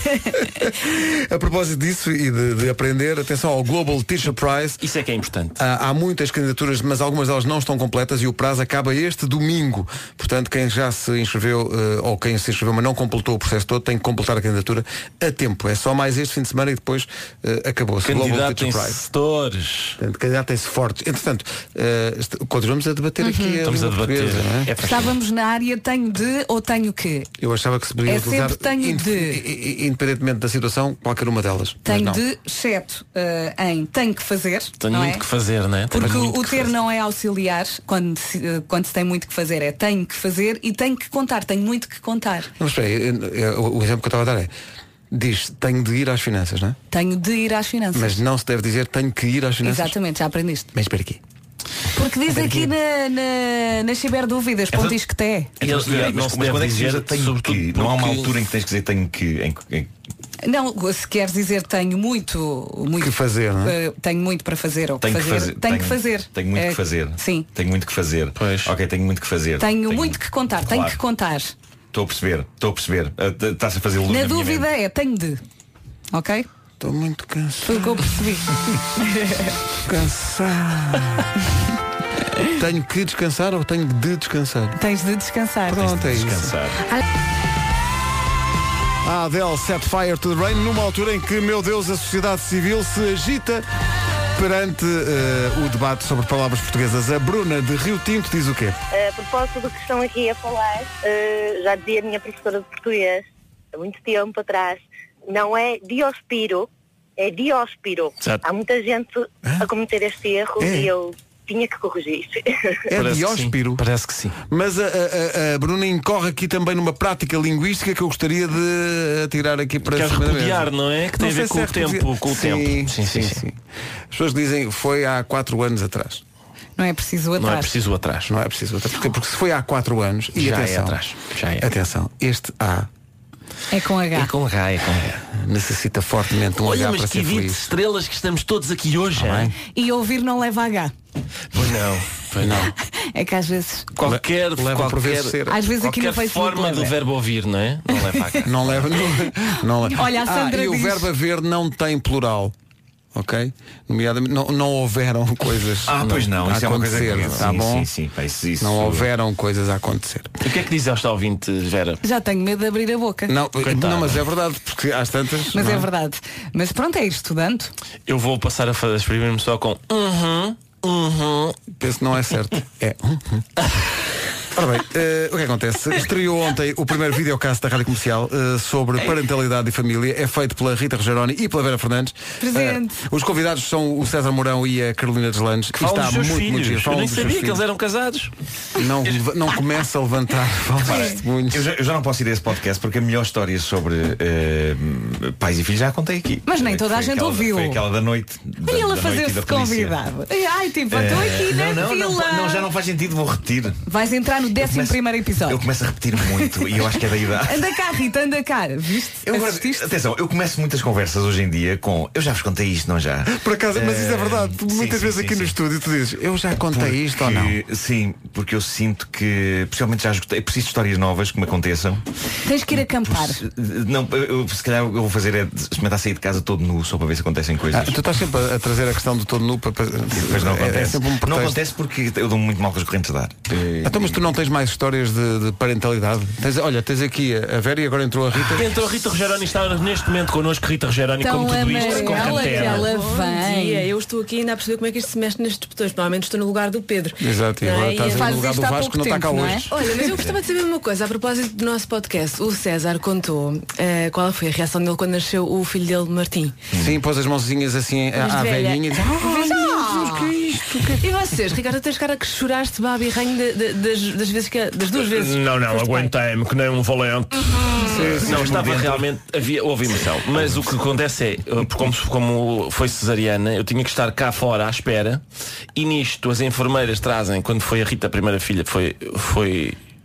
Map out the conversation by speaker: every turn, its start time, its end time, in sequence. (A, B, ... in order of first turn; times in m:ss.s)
0:00.4-0:04.8 A
0:04.8-0:05.6 B
0:05.6-0:19.0 A
0:18.0-0:20.0 B
0:20.0-0:24.7 A
0:23.2-0:23.6 C
0:23.6-0:25.2 B
0:24.8-0:27.3 C
0:27.4-0:32.2 A
0:28.1-0:29.4 C
0:31.8-0:35.2 C
0:34.8-0:36.6 B
0:35.9-0:42.5 C
0:36.0-0:36.4 A
0:42.6-0:44.5 A
0:45.1-0:46.8 A
0:46.9-0:48.2 C
0:47.9-0:50.0 A
0:49.6-0:50.7 C
0:50.7-0:51.2 A
0:51.9-0:55.5 C
0:52.3-0:52.7 A
0:55.6-0:59.9 D
0:55.6-0:58.5 B
1:00.4-1:07.5 C
1:03.0-1:03.8 A
1:05.0-1:11.0 D
1:08.4-1:08.7 B
1:09.6-1:11.5 C
1:11.9-1:14.7 D
1:14.1-1:15.4 C
1:16.1-1:16.5 C
1:16.8-1:18.1 A
1:17.6-1:19.5 C
1:19.8-1:21.3 A
1:22.5-1:24.8 A
1:24.8-1:25.9 C
1:25.7-1:26.5 A
1:25.8-1:26.8 D
1:29.0-1:33.7 A
1:34.4-1:38.8 A
1:38.9-1:52.8 E
1:50.6-1:50.9 A
1:52.9-1:53.8 A
1:52.9-1:54.4 B
1:54.5-2:03.6 A
1:59.9-2:03.4 B
2:04.1-2:06.2 A
2:06.8-2:07.7 C
2:07.4-2:08.3 B
2:08.2-2:11.0 A
2:10.4-2:11.7 B
2:11.6-2:12.9 A
2:13.7-2:14.3 C
2:14.1-2:15.2 B
2:15.3-2:17.7 A
2:16.6-2:19.5 B
2:19.2-2:19.6 A
2:19.7-2:20.9 C
2:21.5-2:22.7 B
2:22.4-2:22.7 A
2:22.9-2:23.9 C
2:24.0-2:28.9 B
2:24.0-2:25.6 A
2:25.5-2:26.9 C
2:28.4-2:32.5 A
2:29.8-2:31.1 C
2:33.1-2:37.9 A
2:35.8-2:39.1 D
2:36.0-2:36.4 B
2:37.0-2:37.5 B
2:38.6-2:40.3 A
2:40.4-2:42.0 B
2:42.0-2:43.3 C
2:43.3-2:45.9 A
2:43.6-2:44.2 B
2:45.5-2:47.7 C
2:48.1-2:51.6 B
2:51.7-2:53.5 A
2:54.5-3:07.6 A
3:02.4-3:03.0 C
3:05.8-3:08.3 B
3:08.8-3:11.7 A
3:10.8-3:20.0 D
3:10.9-3:11.2 C
3:16.5-3:17.8 C
3:18.6-3:22.7 C
3:20.9-3:23.8 D
3:23.9-3:25.7 C
3:24.6-3:27.7 D
3:26.2-3:29.9 C
3:29.2-3:35.6 D
3:33.3-3:37.6 A
3:36.7-3:42.0 D
3:42.4-3:43.4 C
3:43.0-3:48.0 D
3:47.7-3:51.6 A
3:50.2-3:54.2 D
3:53.8-3:58.7 A
3:58.4-4:03.0 B
4:01.2-4:03.9 C
4:01.7-4:08.4 F
4:07.2-4:09.8 A
4:07.8-4:09.7 C
4:09.7-4:16.6 F
4:10.1-4:10.4 D
4:16.7-4:17.0 D
4:16.8-4:21.0 A
4:18.1-4:19.0 F
4:19.2-4:20.3 C
4:21.0-4:26.1 F
4:24.9-4:35.2 B
4:27.8-4:29.1 D
4:27.9-4:28.5 A
4:30.0-4:30.7 D
4:35.8-4:39.8 B